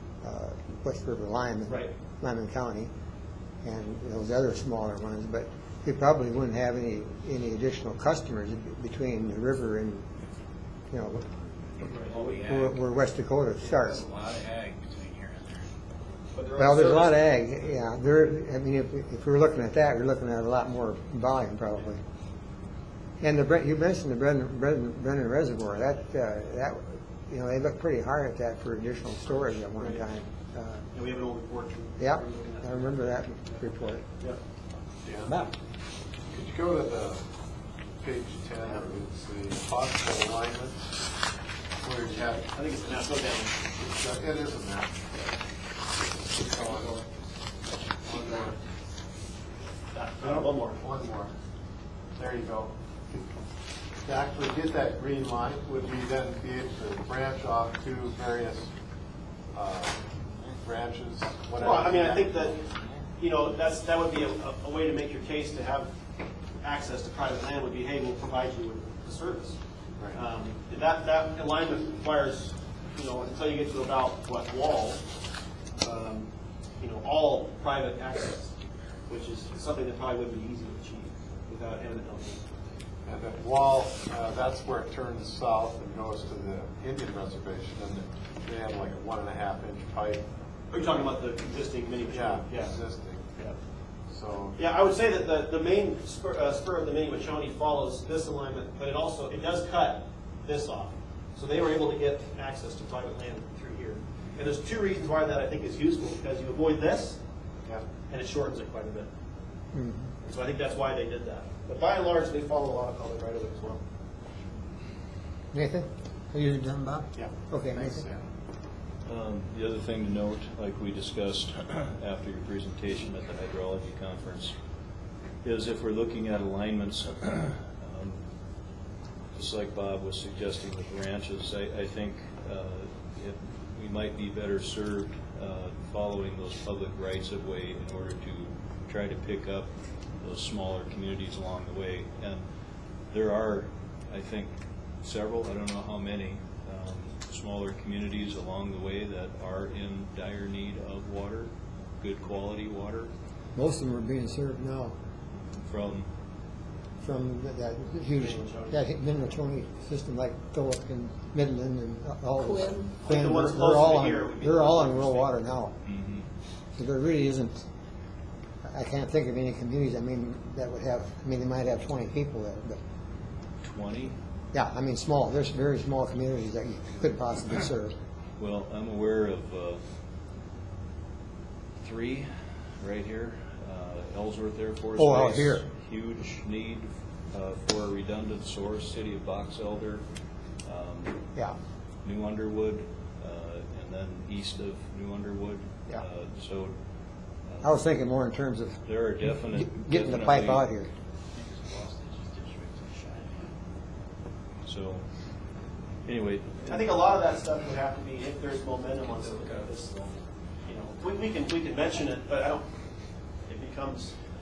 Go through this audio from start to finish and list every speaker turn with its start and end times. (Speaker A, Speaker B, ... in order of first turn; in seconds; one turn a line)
Speaker A: 0.2-2.9
Speaker A: 3.6-10.1
Speaker A: 10.9-11.2
Speaker A: 11.8-14.0
Speaker B: 11.8-12.3
Speaker C: 11.9-12.8
Speaker C: 13.6-15.7
Speaker B: 16.3-17.1
Speaker A: 16.6-22.0
Speaker A: 23.2-30.8
Speaker B: 29.8-30.1
Speaker B: 30.9-32.9
Speaker A: 32.0-34.0
Speaker D: 35.0-35.3
Speaker A: 35.3-35.5
Speaker D: 36.3-37.2
Speaker D: 38.0-40.9
Speaker D: 41.8-42.5
Speaker B: 42.5-43.8
Speaker D: 43.8-44.9
Speaker D: 46.3-47.0
Speaker D: 48.0-48.6
Speaker B: 49.9-50.8
Speaker D: 50.2-51.3
Speaker D: 52.1-53.2
Speaker D: 54.0-58.7
Speaker D: 59.5-60.0
Speaker D: 60.6-62.2
Speaker B: 61.6-62.6
Speaker B: 63.2-65.9
Speaker B: 66.6-69.6
Speaker B: 70.1-75.0
Speaker B: 75.8-76.3
Speaker B: 76.8-78.5
Speaker B: 79.1-82.4
Speaker D: 83.0-90.2
Speaker B: 90.7-92.8
Speaker D: 92.1-93.2
Speaker D: 94.1-94.5
Speaker B: 94.6-107.2
Speaker B: 108.1-109.1
Speaker A: 109.7-110.1
Speaker B: 110.2-113.8
Speaker A: 115.5-118.0
Speaker D: 117.7-118.2
Speaker E: 119.0-124.5
Speaker E: 125.4-128.2
Speaker E: 129.3-142.5
Speaker E: 143.1-153.1
Speaker A: 153.5-154.9
Speaker E: 155.6-156.1
Speaker A: 157.0-165.7
Speaker B: 158.1-158.8
Speaker B: 163.0-165.3
Speaker E: 165.8-166.3
Speaker A: 166.7-167.7
Speaker A: 168.7-172.8
Speaker E: 173.6-174.2
Speaker A: 174.5-177.9
Speaker E: 178.4-179.8
Speaker E: 181.8-182.2
Speaker E: 182.8-190.0
Speaker A: 185.0-185.6
Speaker E: 190.6-191.2
Speaker E: 192.0-196.7
Speaker E: 197.4-197.9
Speaker A: 197.6-198.8
Speaker E: 198.8-200.7
Speaker A: 199.5-200.9
Speaker C: 201.3-203.4
Speaker E: 204.6-205.0
Speaker E: 206.0-206.9
Speaker B: 206.6-210.0
Speaker C: 209.1-209.5
Speaker B: 210.6-212.7
Speaker B: 213.4-214.1